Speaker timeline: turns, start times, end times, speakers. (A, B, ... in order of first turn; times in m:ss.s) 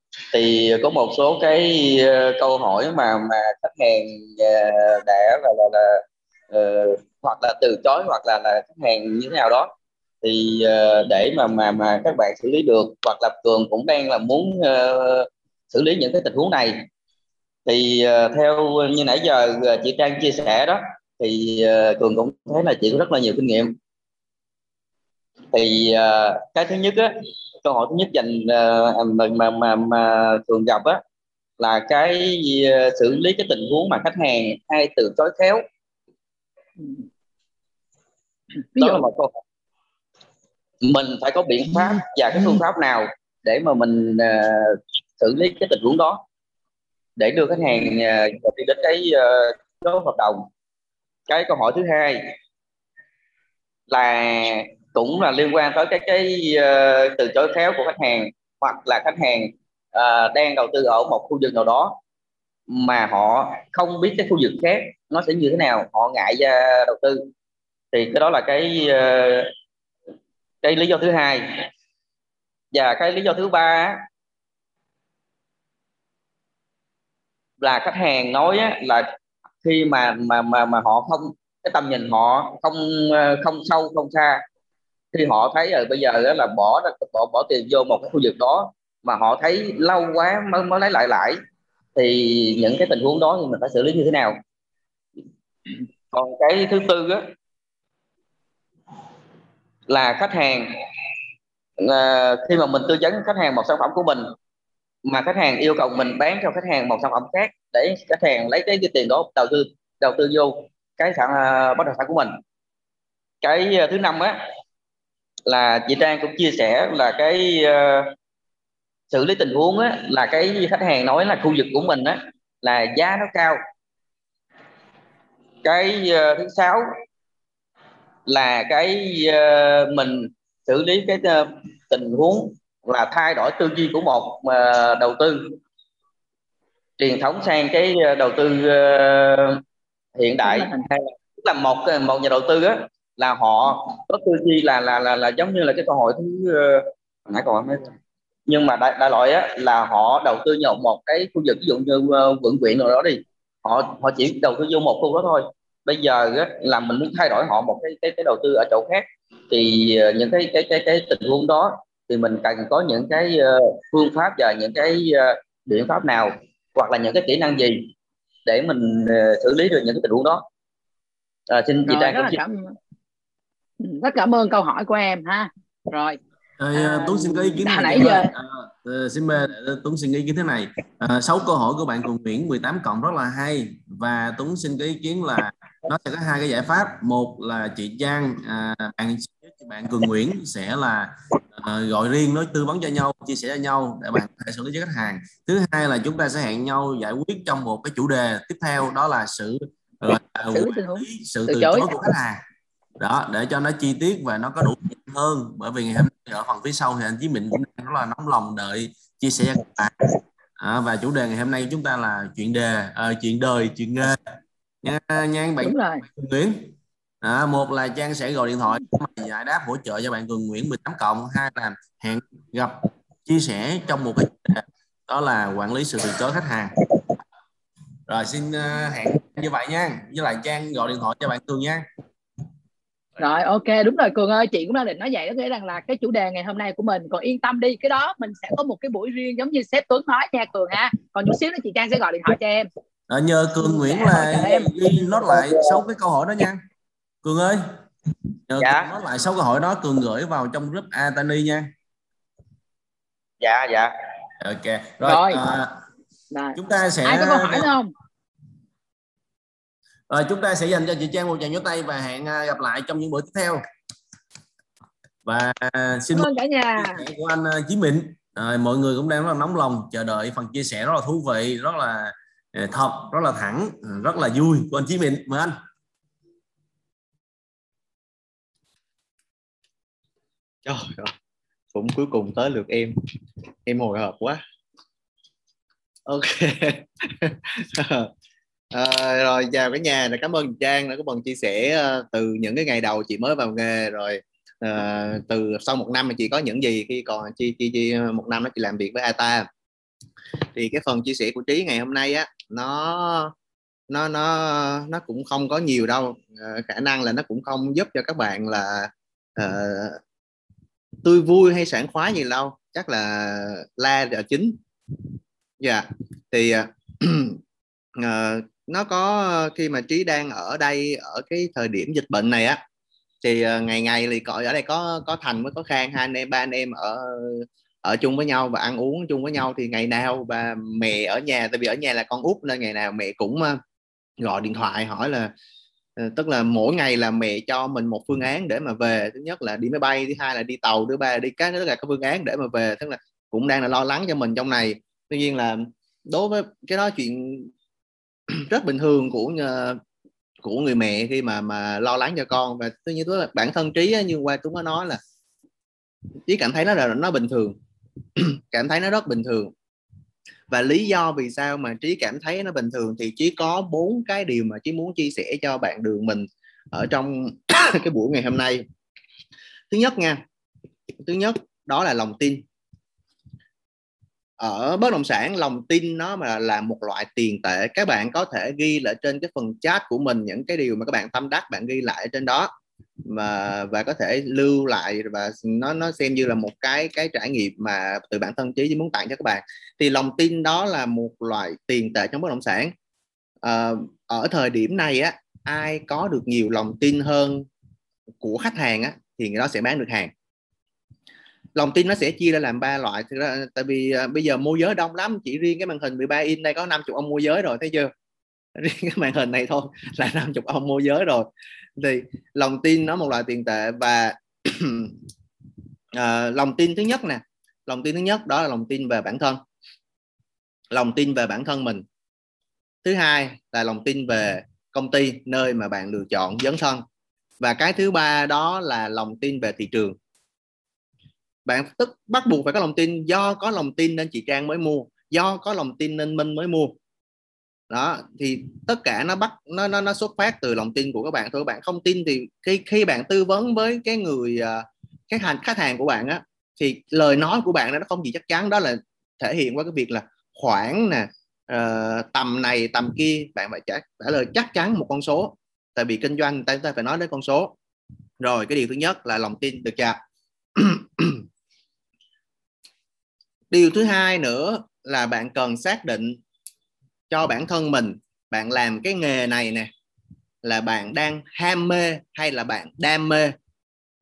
0:00.3-0:09.7 A
0:10.2-0:16.8 A
0:17.7-0:23.7 A
0:25.5-0:27.1 A
0:27.6-0:31.0 A
0:31.6-0:35.6 A
0:36.8-0:37.0 B
0:38.7-0:39.0 B
0:38.8-0:39.3 A
0:40.8-0:46.2 A
0:47.2-0:50.5 A
0:51.3-0:52.2 A
0:53.9-1:02.0 A
1:02.7-1:07.2 A
1:07.9-1:09.5 A
1:10.6-1:11.6 A
1:12.7-1:14.0 A
1:17.6-1:19.1 A
1:19.6-1:24.4 A
1:25.1-1:31.4 A
1:32.0-1:34.4 A
1:36.1-1:37.2 A
1:39.9-1:40.7 A
1:41.8-1:44.3 A
1:45.1-1:52.4 A
1:53.4-1:54.4 A
1:55.5-1:58.1 A
1:59.1-2:03.6 A
2:05.6-2:06.9 A
2:08.3-2:15.5 A
2:17.0-2:19.6 A
2:20.2-2:27.9 A
2:20.4-2:20.8 B
2:28.5-2:47.9 A
2:48.5-2:50.4 A
2:51.5-2:52.4 A
2:51.9-2:52.7 B
2:53.8-2:56.2 B
2:56.6-3:22.4 C
2:56.8-2:58.3 B
3:20.5-3:22.0 B
3:23.0-3:30.0 C
3:30.6-3:34.2 C
3:34.8-3:46.7 C
3:35.6-3:36.0 B
3:48.1-3:51.8 C
3:53.2-4:02.7 B
4:03.1-4:06.6 C
4:03.6-4:04.7 B
4:07.2-4:07.6 C
4:08.5-4:11.7 C
4:08.6-4:08.9 A
4:13.4-4:13.9 A
4:14.4-4:15.8 C
4:15.0-4:15.4 B
4:16.3-4:17.9 B
4:16.6-4:17.7 C
4:20.1-4:23.6 C
4:25.3-4:35.6 C
4:26.1-4:27.0 B
4:40.6-4:41.1 D
4:41.7-4:42.9 D
4:43.7-4:44.4 D
4:46.1-4:48.1 D
4:48.7-4:59.5 D
5:00.6-5:03.3 D
5:03.9-5:10.0 D
5:11.0-5:14.6 D
5:15.6-5:17.4 D
5:18.0-5:22.6 D
5:23.2-5:33.6 D
5:34.2-5:35.3 D
5:36.0-5:47.5 D
5:48.5-5:49.8 D
5:50.4-5:55.0 D
5:56.3-5:57.6 D
5:58.2-5:59.5 D
6:00.5-6:08.6 D
6:09.7-6:10.2 D
6:11.0-6:12.4 D
6:14.4-6:22.5 D
6:23.1-6:32.7 D
6:33.4-6:37.5 D
6:38.2-6:40.1 D
6:41.6-6:47.9 D
6:48.6-6:54.9 D
6:56.0-6:59.4 D
7:00.7-7:01.8 D
7:02.8-7:06.8 D
7:07.4-7:10.0 D
7:11.5-7:16.8 D
7:17.7-7:37.5 D
7:38.2-7:40.0 D
7:40.6-7:41.2 D
7:43.5-7:46.2 D
7:47.1-7:49.7 D
7:50.4-7:53.3 D